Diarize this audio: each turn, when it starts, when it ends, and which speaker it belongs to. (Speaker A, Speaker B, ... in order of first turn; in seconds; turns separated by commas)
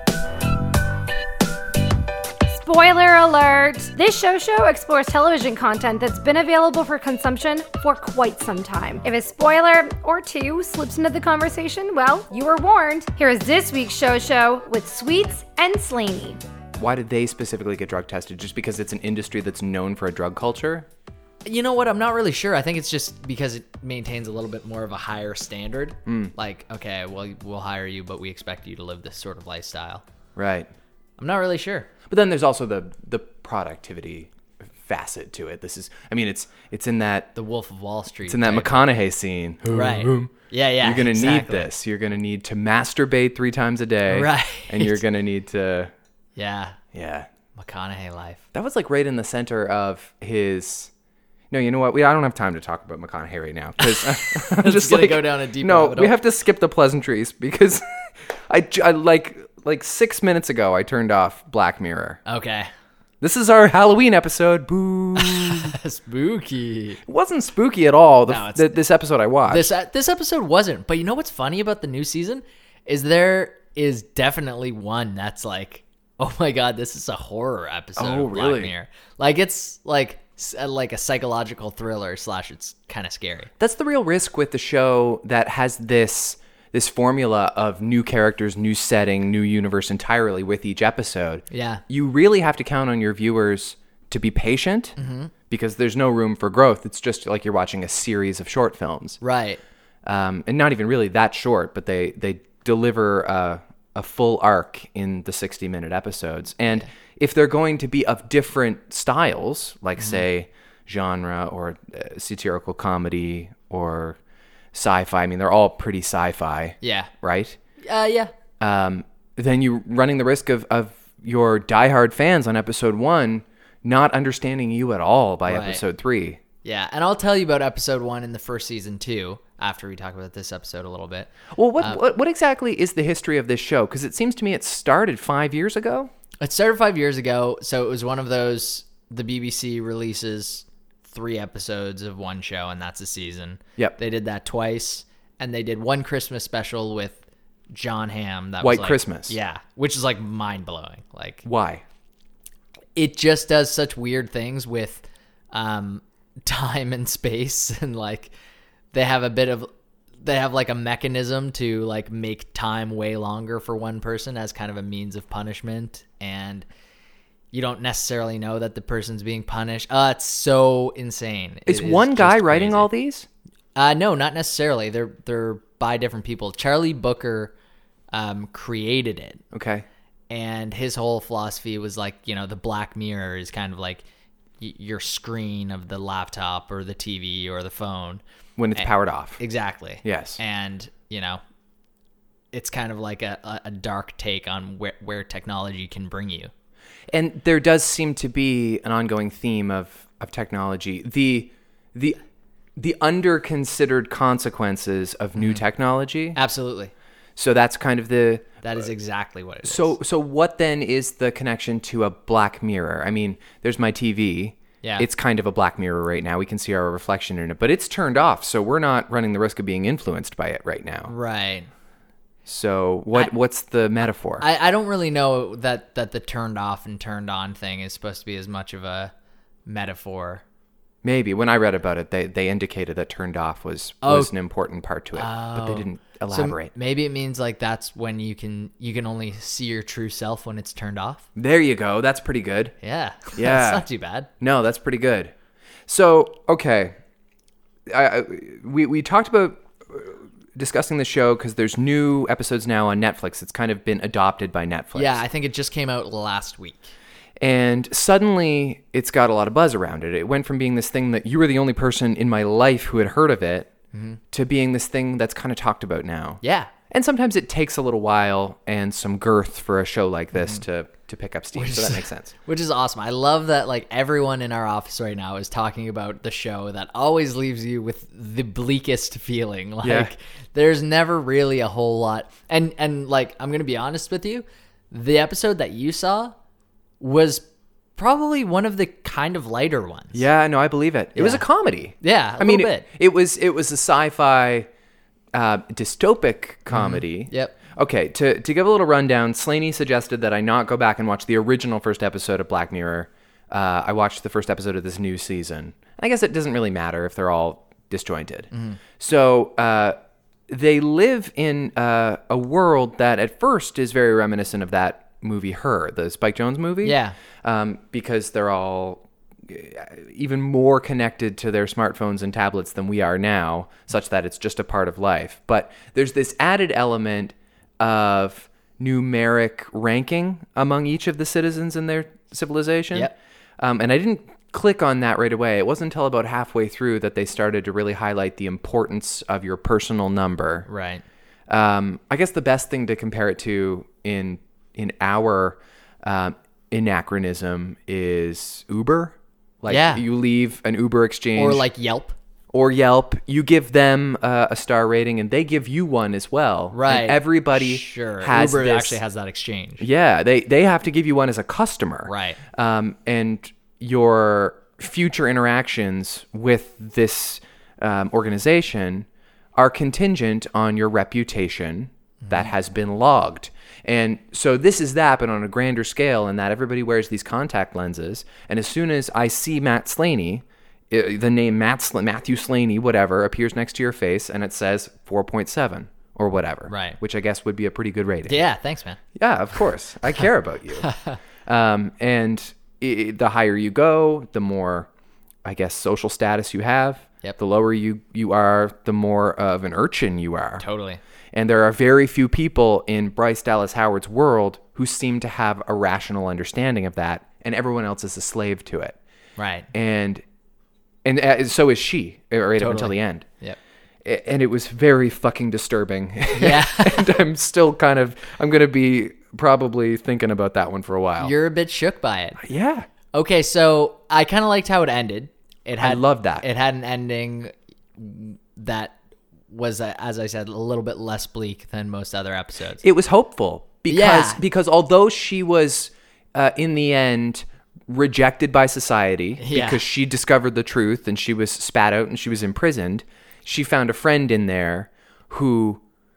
Speaker A: 2.5-16.4, Speaker B: 16.8-20.9, Speaker C: 21.4-30.0, Speaker B: 26.1-26.3, Speaker B: 30.4-30.7, Speaker C: 31.2-31.9, Speaker B: 32.1-37.3, Speaker C: 37.4-39.0, Speaker B: 38.3-45.9, Speaker C: 39.7-41.7, Speaker C: 44.1-45.0, Speaker C: 46.4-46.8, Speaker B: 46.9-47.3, Speaker C: 47.5-48.4, Speaker B: 48.5-50.9, Speaker B: 51.5-62.2, Speaker C: 53.8-56.2, Speaker C: 62.3-62.7, Speaker B: 63.2-65.8, Speaker C: 65.2-67.0, Speaker B: 67.1-69.7, Speaker C: 68.3-68.8, Speaker C: 69.5-83.5, Speaker B: 78.0-78.7, Speaker B: 83.6-95.0, Speaker C: 91.5-91.8, Speaker C: 95.0-95.3, Speaker B: 95.5-99.2, Speaker C: 99.2-99.6, Speaker B: 100.0-114.2, Speaker B: 114.7-117.6, Speaker C: 116.8-117.1, Speaker C: 117.8-118.3, Speaker B: 118.6-126.4, Speaker C: 125.5-125.8, Speaker C: 126.6-132.0, Speaker B: 131.5-136.1, Speaker C: 136.4-151.4, Speaker B: 148.6-149.3, Speaker B: 151.4-151.8, Speaker C: 152.9-158.3, Speaker C: 158.9-159.7, Speaker C: 160.2-166.7, Speaker C: 167.5-172.9, Speaker B: 171.7-173.3, Speaker C: 173.8-177.5, Speaker C: 178.1-179.4, Speaker B: 179.5-179.8, Speaker C: 180.3-184.0, Speaker C: 184.6-188.2, Speaker B: 188.6-189.4, Speaker C: 188.8-191.4, Speaker B: 190.0-190.4, Speaker C: 192.5-196.5, Speaker B: 197.1-202.2, Speaker B: 202.8-206.4, Speaker C: 205.4-205.6, Speaker C: 206.3-206.9, Speaker B: 207.4-208.6, Speaker C: 208.6-210.0, Speaker B: 209.6-221.1, Speaker C: 221.1-221.7, Speaker B: 222.5-224.5, Speaker C: 224.4-229.1, Speaker C: 229.7-230.4, Speaker B: 231.0-236.7, Speaker C: 234.0-234.3, Speaker C: 235.2-241.2, Speaker B: 241.4-242.8, Speaker C: 242.8-244.3, Speaker B: 243.3-243.8, Speaker B: 244.4-245.3, Speaker B: 245.9-247.0, Speaker B: 247.9-255.2, Speaker C: 254.9-256.9, Speaker B: 257.4-263.7, Speaker C: 263.9-264.2, Speaker B: 264.3-272.3, Speaker C: 266.4-266.7, Speaker C: 270.4-270.6, Speaker C: 271.5-286.3, Speaker B: 279.8-280.1, Speaker C: 287.0-290.2, Speaker B: 290.1-294.7, Speaker C: 291.2-291.4, Speaker C: 292.0-292.9, Speaker B: 295.3-310.0, Speaker C: 296.7-297.6, Speaker C: 308.5-308.8, Speaker B: 310.5-340.7, Speaker C: 316.8-317.2, Speaker C: 340.7-341.0, Speaker B: 341.5-351.7, Speaker C: 349.7-350.0, Speaker C: 351.4-352.2, Speaker B: 352.5-359.0, Speaker C: 356.7-359.9, Speaker B: 359.8-388.4, Speaker C: 362.1-362.4, Speaker C: 372.2-372.5, Speaker C: 386.7-387.0, Speaker C: 388.3-389.0, Speaker B: 389.1-390.9, Speaker C: 390.8-391.2, Speaker B: 391.5-394.9, Speaker B: 395.4-400.6, Speaker C: 400.6-401.0, Speaker B: 401.3-409.0, Speaker C: 409.4-409.7, Speaker B: 409.7-410.2, Speaker B: 411.1-413.3, Speaker C: 412.6-413.6, Speaker B: 414.0-421.3, Speaker C: 416.4-417.2, Speaker C: 421.2-422.4, Speaker B: 422.4-422.9, Speaker C: 423.1-429.0, Speaker B: 425.8-426.5, Speaker C: 429.5-432.8, Speaker B: 432.8-445.8, Speaker C: 433.9-434.4, Speaker C: 439.4-439.8